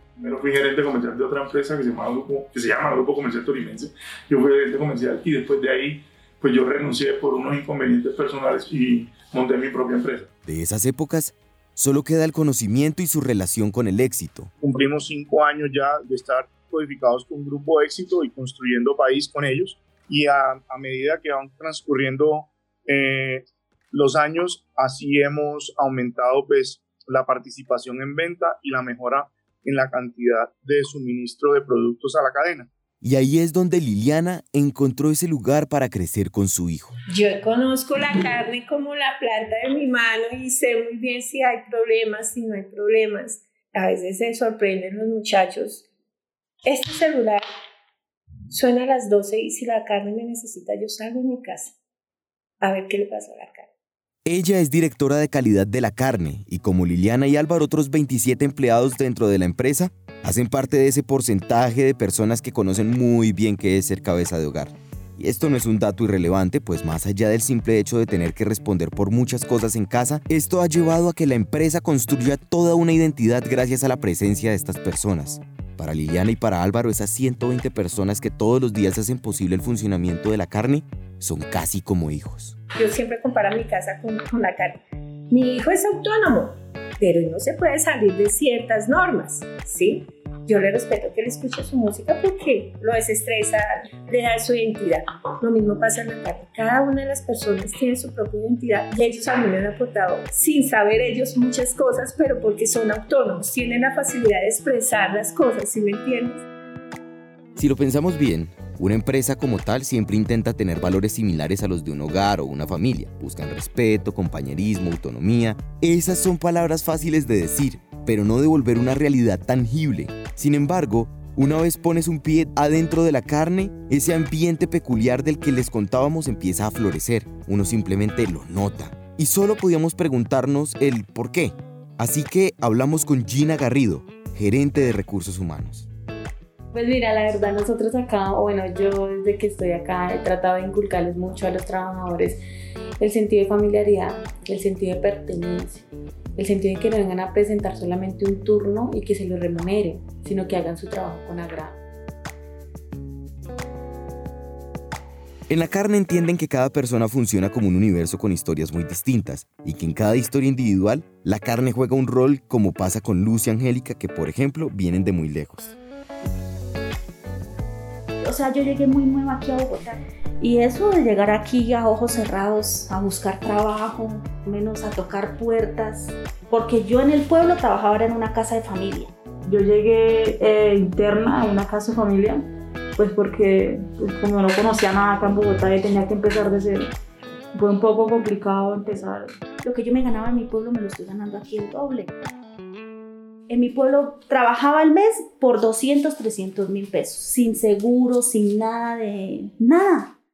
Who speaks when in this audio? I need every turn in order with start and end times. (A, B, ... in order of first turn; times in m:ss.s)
0:00.2-0:10.3 A
0:10.4-0:14.5 B
0:14.6-0:32.7 A
0:33.0-0:37.0 B
0:37.1-0:45.9 C
0:46.6-0:47.4 C
0:48.5-0:51.8 C
0:52.6-0:53.7 C
0:54.2-1:22.6 B
1:22.8-1:46.4 C
1:47.6-2:15.9 B
2:16.7-2:22.4 D
2:23.0-2:31.8 D
2:35.5-2:45.8 B
2:48.2-2:59.1 E
2:59.4-3:06.9 F
3:07.5-3:09.3 F
3:09.6-3:12.1 E
3:13.5-3:20.1 E